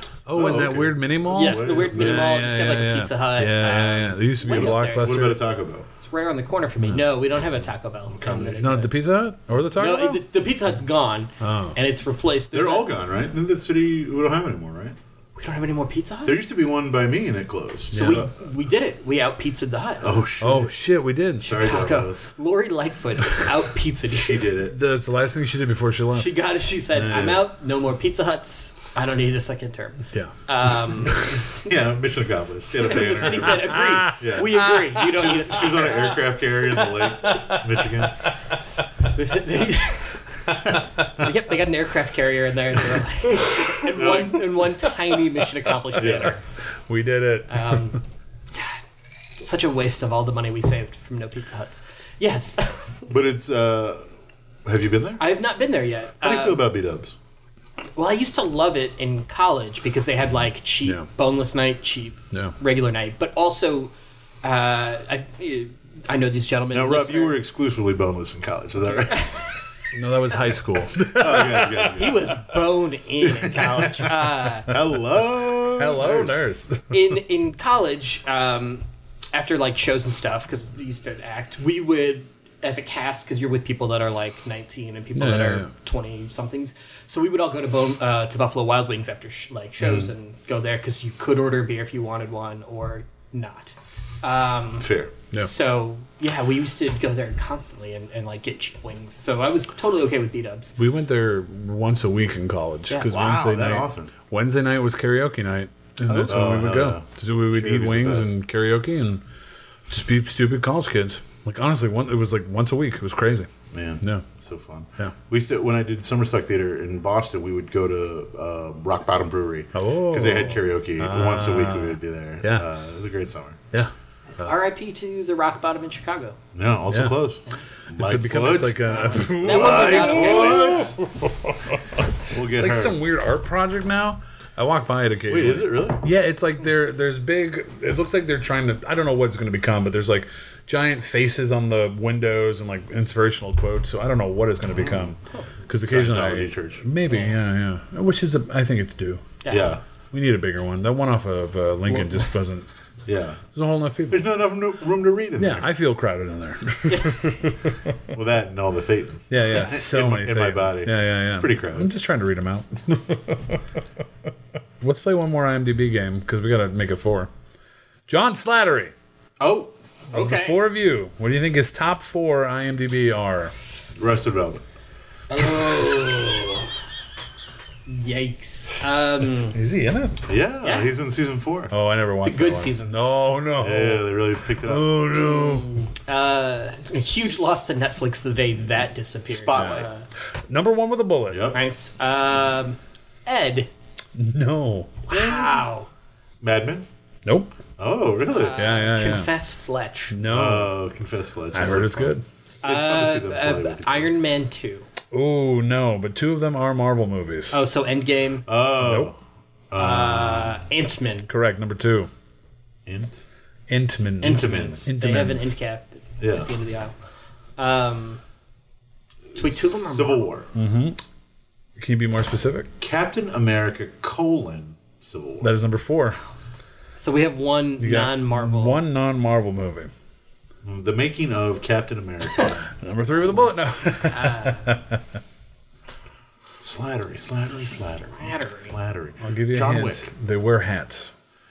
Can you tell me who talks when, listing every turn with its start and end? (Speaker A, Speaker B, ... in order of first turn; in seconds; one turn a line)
Speaker A: 0.3-5.4
Speaker B: 0.3-2.4
Speaker C: 1.3-5.4
Speaker B: 4.5-5.9
Speaker C: 6.0-8.9
Speaker B: 8.1-8.6
Speaker A: 8.5-10.2
Speaker C: 9.7-12.9
Speaker A: 11.4-11.8
Speaker B: 12.5-14.9
Speaker C: 15.4-16.4
Speaker B: 16.2-18.3
Speaker A: 17.9-18.2
Speaker C: 17.9-20.1
Speaker B: 20.0-20.7
Speaker A: 20.4-21.6
Speaker B: 21.4-22.3
Speaker C: 21.4-24.4
Speaker B: 24.2-24.8
Speaker A: 24.7-26.3
Speaker C: 26.1-31.7
Speaker A: 27.0-27.3
Speaker B: 27.0-27.4
Speaker A: 31.0-31.4
Speaker B: 31.5-38.2
Speaker C: 32.7-36.2
Speaker A: 33.3-35.3
Speaker A: 36.8-38.3
Speaker C: 39.1-40.2
Speaker C: 41.1-46.4
Speaker A: 43.5-43.8
Speaker B: 44.0-44.5
Speaker B: 46.0-46.4
Speaker A: 46.0-46.3
Speaker A: 46.9-48.0
Speaker C: 47.5-48.0
Speaker C: 48.5-48.8
Speaker C: 49.4-53.0
Speaker B: 53.1-54.0
Speaker B: 54.6-55.2
Speaker C: 55.2-56.6
Speaker B: 56.2-57.1
Speaker C: 58.0-67.4
Speaker B: 66.7-69.3
Speaker C: 68.8-69.5
Speaker A: 69.9-72.1
Speaker B: 71.1-72.4
Speaker C: 71.8-74.7
Speaker B: 73.2-74.1
Speaker B: 74.7-76.5
Speaker A: 75.8-77.2
Speaker C: 76.9-94.9
Speaker A: 85.1-85.7
Speaker B: 94.8-95.1
Speaker C: 95.4-100.7
Speaker A: 100.8-109.2
Speaker B: 103.0-104.1
Speaker B: 106.1-108.4
Speaker A: 109.9-114.3
Speaker B: 113.7-123.6
Speaker A: 119.7-122.7
Speaker A: 123.7-124.5
Speaker C: 124.4-126.4
Speaker B: 126.5-131.0
Speaker A: 126.9-127.2
Speaker A: 127.9-149.4
Speaker C: 128.8-130.9
Speaker B: 132.3-133.0
Speaker B: 135.3-136.0
Speaker B: 144.7-145.1
Speaker B: 145.8-146.8
Speaker C: 147.1-147.4
Speaker C: 149.4-149.8
Speaker B: 149.5-149.8
Speaker A: 150.1-152.7
Speaker B: 153.1-153.4
Speaker A: 153.5-154.3
Speaker B: 154.1-155.7
Speaker A: 155.4-157.9
Speaker C: 156.9-157.2
Speaker B: 158.1-161.9
Speaker A: 159.3-163.8
Speaker C: 159.4-159.7
Speaker A: 164.8-167.3
Speaker A: 168.1-168.9
Speaker B: 169.4-169.7
Speaker A: 170.1-173.5
Speaker C: 170.1-170.6
Speaker B: 173.9-174.6
Speaker C: 175.3-176.7
Speaker C: 177.9-179.6
Speaker A: 179.4-180.2
Speaker B: 180.3-181.7
Speaker C: 180.6-180.9
Speaker A: 181.7-185.7
Speaker C: 182.2-183.1
Speaker B: 183.6-185.0
Speaker C: 185.2-190.1
Speaker B: 189.3-189.9
Speaker A: 189.6-189.8
Speaker A: 190.5-191.5
Speaker B: 191.3-191.6
Speaker C: 191.5-193.7
Speaker A: 194.1-195.0
Speaker C: 195.1-195.9
Speaker B: 195.1-195.6
Speaker B: 196.4-196.9
Speaker A: 197.2-197.5
Speaker B: 197.8-198.6
Speaker C: 198.3-200.2
Speaker A: 198.5-199.3
Speaker A: 200.1-200.7
Speaker B: 200.3-204.1
Speaker A: 201.5-202.2
Speaker C: 202.6-204.9
Speaker A: 205.1-207.6
Speaker C: 207.5-208.5
Speaker B: 208.5-209.2
Speaker A: 208.8-209.1
Speaker B: 209.7-210.6
Speaker C: 209.7-211.3
Speaker A: 211.3-212.1
Speaker B: 212.9-213.2
Speaker A: 213.7-215.6
Speaker C: 214.2-216.9
Speaker B: 214.3-214.8
Speaker B: 216.2-216.5
Speaker C: 217.6-218.2
Speaker B: 219.3-220.5
Speaker C: 219.3-220.3
Speaker A: 220.6-221.0
Speaker A: 221.8-222.7
Speaker B: 222.8-225.5
Speaker A: 225.4-226.2
Speaker C: 227.0-228.8
Speaker A: 227.8-229.9
Speaker B: 230.6-232.7
Speaker A: 232.7-235.0
Speaker C: 234.1-234.7
Speaker B: 236.6-240.1
Speaker C: 237.6-238.7
Speaker A: 239.2-241.1